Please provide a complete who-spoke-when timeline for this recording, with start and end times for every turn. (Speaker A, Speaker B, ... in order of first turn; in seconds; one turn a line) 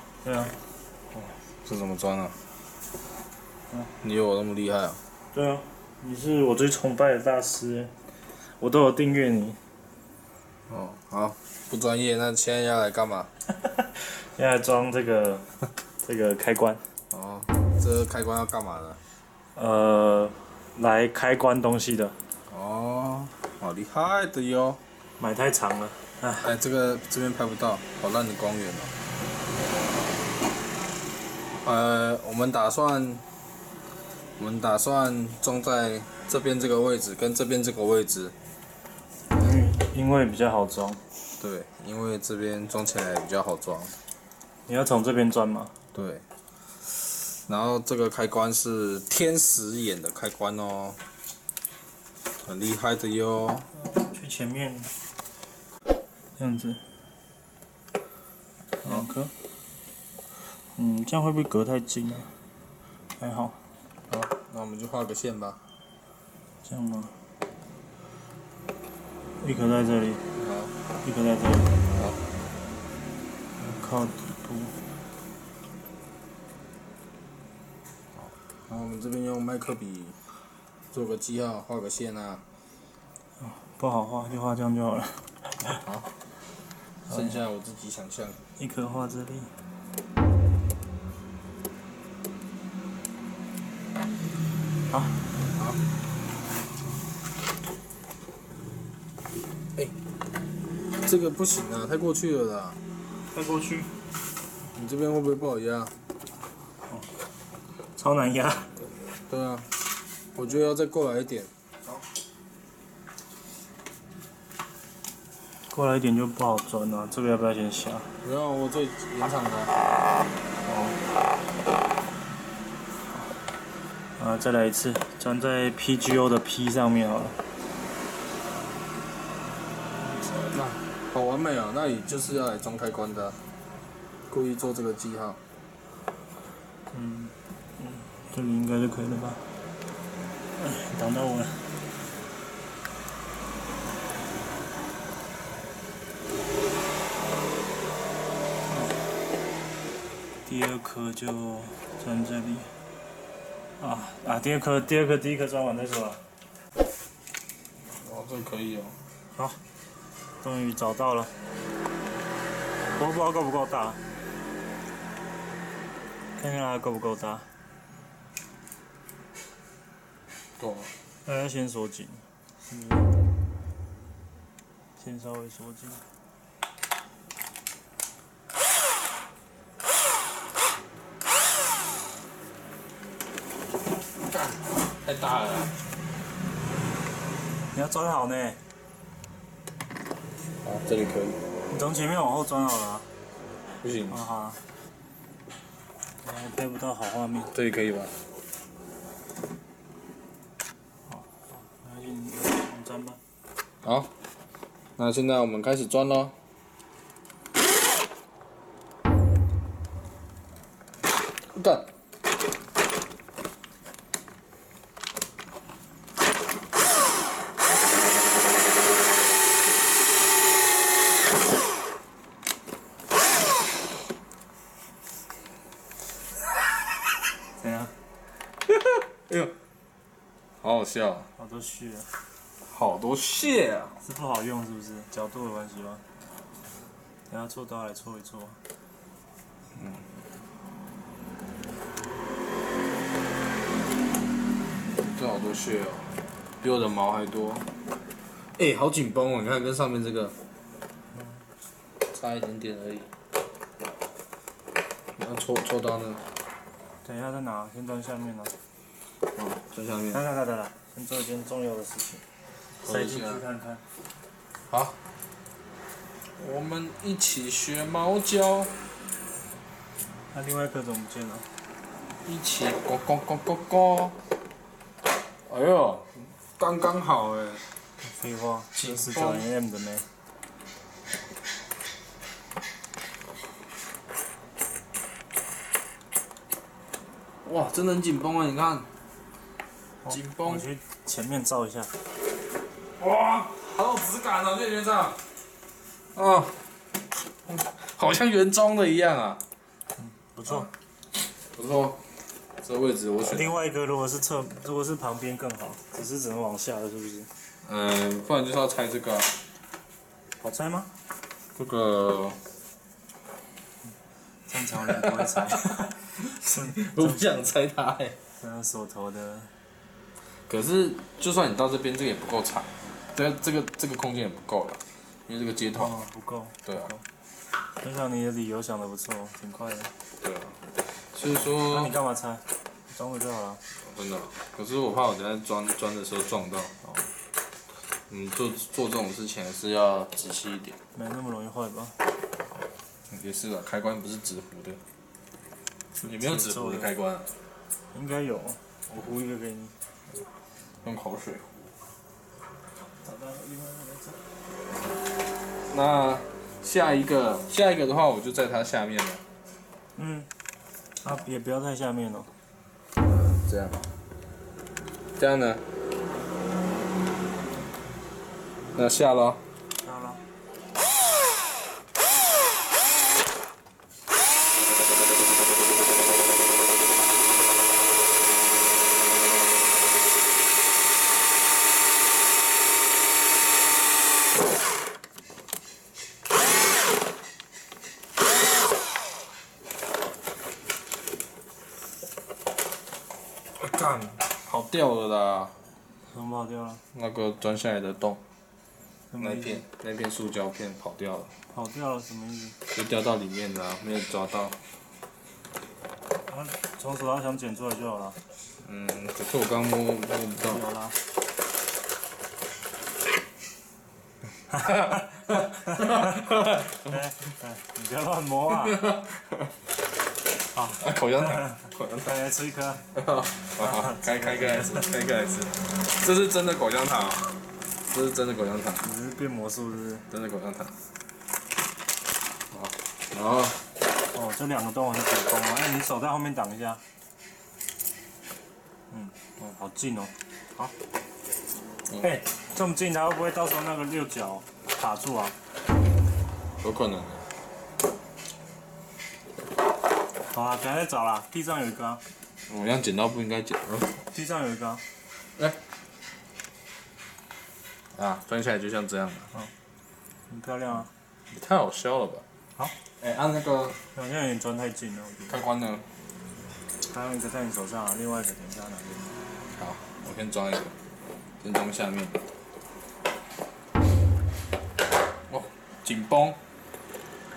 Speaker A: 0.2-0.6
Speaker A: 1.1-1.4
Speaker B: 1.6-2.4
Speaker B: 4.0-5.0
Speaker A: 5.3-7.9
Speaker A: 8.6-9.6
Speaker B: 10.7-13.3
Speaker A: 13.6-15.5
Speaker A: 16.0-16.8
Speaker B: 17.1-19.0
Speaker A: 19.6-22.2
Speaker B: 22.5-24.8
Speaker A: 25.2-26.5
Speaker B: 26.4-28.9
Speaker B: 31.6-33.2
Speaker B: 34.4-38.4
Speaker A: 39.3-41.0
Speaker B: 41.4-44.0
Speaker A: 44.7-45.8
Speaker B: 45.9-46.2
Speaker B: 47.3-51.0
Speaker B: 52.4-53.7
Speaker A: 53.8-54.9
Speaker A: 56.4-56.8
Speaker A: 58.8-59.3
Speaker A: 60.6-62.3
Speaker A: 63.2-63.6
Speaker B: 64.1-65.6
Speaker A: 66.6-67.1
Speaker A: 69.4-70.2
Speaker B: 70.4-70.7
Speaker A: 71.0-71.8
Speaker B: 71.9-72.2
Speaker A: 73.6-74.8
Speaker B: 78.7-80.2
Speaker B: 80.9-82.4
Speaker A: 83.4-85.8
Speaker B: 85.8-86.1
Speaker B: 87.1-88.4
Speaker A: 87.1-87.4
Speaker A: 88.6-89.5
Speaker A: 94.9-95.2
Speaker B: 95.5-95.8
Speaker B: 101.0-102.8
Speaker A: 103.3-103.9
Speaker B: 104.7-105.9
Speaker A: 108.0-108.7
Speaker B: 109.3-109.7
Speaker B: 110.3-111.5
Speaker A: 115.7-118.1
Speaker B: 118.2-119.8
Speaker B: 120.7-121.0
Speaker A: 124.2-127.4
Speaker B: 130.5-133.4
Speaker B: 134.3-135.4
Speaker A: 136.9-139.4
Speaker A: 140.6-141.7
Speaker A: 148.7-149.0
Speaker A: 150.4-152.7
Speaker A: 153.8-156.2
Speaker B: 158.0-159.0
Speaker A: 159.3-159.6
Speaker A: 160.4-161.3
Speaker A: 163.0-164.0
Speaker A: 166.4-167.5
Speaker B: 170.6-170.9
Speaker A: 171.2-173.1
Speaker A: 175.0-176.0
Speaker B: 184.3-185.8
Speaker A: 187.7-188.6
Speaker B: 190.6-191.4
Speaker A: 191.7-193.1
Speaker B: 193.8-194.2
Speaker A: 194.1-194.6
Speaker A: 196.2-197.5
Speaker B: 197.5-198.1
Speaker A: 201.1-203.2
Speaker B: 203.8-204.1
Speaker B: 205.0-206.3
Speaker B: 211.5-211.9
Speaker A: 227.6-227.9
Speaker B: 228.7-229.5
Speaker B: 230.6-231.3
Speaker A: 231.4-232.1
Speaker B: 232.7-234.0
Speaker A: 234.0-236.0
Speaker A: 237.3-238.6
Speaker B: 239.8-240.1
Speaker B: 245.0-247.7
Speaker B: 248.6-250.3
Speaker A: 251.1-251.5
Speaker B: 252.1-253.1
Speaker B: 255.2-256.2
Speaker A: 257.0-258.5
Speaker B: 259.3-260.2
Speaker A: 260.1-262.2
Speaker B: 262.8-263.4
Speaker A: 262.8-263.8
Speaker B: 264.7-265.0
Speaker B: 266.4-268.8
Speaker A: 270.3-271.5
Speaker B: 272.2-274.2
Speaker B: 275.5-277.8
Speaker A: 278.0-280.1
Speaker B: 278.7-279.4
Speaker B: 287.4-288.9
Speaker A: 290.0-291.9
Speaker B: 290.1-290.7
Speaker B: 293.0-295.2
Speaker B: 296.1-296.6
Speaker B: 297.4-299.4
Speaker A: 300.0-300.7
Speaker B: 301.5-302.1
Speaker B: 302.6-303.5
Speaker A: 303.3-307.3
Speaker B: 307.6-309.4
Speaker A: 310.4-310.9
Speaker B: 311.6-312.4
Speaker A: 314.5-317.2
Speaker B: 314.8-318.2
Speaker A: 318.4-319.5
Speaker B: 320.3-326.0
Speaker A: 325.8-327.1
Speaker B: 326.7-326.9
Speaker A: 327.8-329.9
Speaker B: 330.2-332.0
Speaker A: 331.6-333.6
Speaker B: 333.8-336.7
Speaker A: 336.8-337.1
Speaker B: 338.1-340.8
Speaker A: 340.9-342.0
Speaker B: 343.1-344.8
Speaker A: 346.0-346.9
Speaker B: 346.1-347.3
Speaker A: 347.9-349.8
Speaker B: 350.8-351.6
Speaker A: 353.0-354.2
Speaker B: 355.7-359.2
Speaker A: 360.0-360.3
Speaker A: 361.0-362.3
Speaker B: 363.0-363.9
Speaker B: 365.2-365.6
Speaker B: 368.7-369.4
Speaker A: 369.8-370.2
Speaker B: 393.6-395.6
Speaker A: 396.1-396.8
Speaker B: 396.9-398.2
Speaker A: 399.1-399.6
Speaker B: 399.2-401.3
Speaker A: 401.5-402.6
Speaker B: 402.7-404.6
Speaker A: 406.3-408.2
Speaker B: 408.6-410.6
Speaker A: 410.4-411.0
Speaker B: 414.6-416.8
Speaker A: 414.6-418.9
Speaker B: 418.6-419.5
Speaker A: 420.5-422.9
Speaker B: 420.8-422.2
Speaker B: 422.9-428.9
Speaker A: 423.6-424.9
Speaker A: 428.8-430.1
Speaker B: 430.1-430.8
Speaker B: 432.5-433.6
Speaker A: 434.1-436.8
Speaker A: 438.9-440.7
Speaker A: 442.0-445.4
Speaker B: 446.6-447.2
Speaker A: 450.3-452.0
Speaker B: 452.5-454.0
Speaker A: 454.0-454.8
Speaker B: 457.9-459.3
Speaker A: 460.3-460.9
Speaker B: 461.3-462.2
Speaker B: 463.0-463.8
Speaker A: 463.9-465.3
Speaker B: 465.3-465.9
Speaker A: 466.9-469.1
Speaker B: 469.5-470.8
Speaker B: 471.4-472.2
Speaker B: 475.3-476.4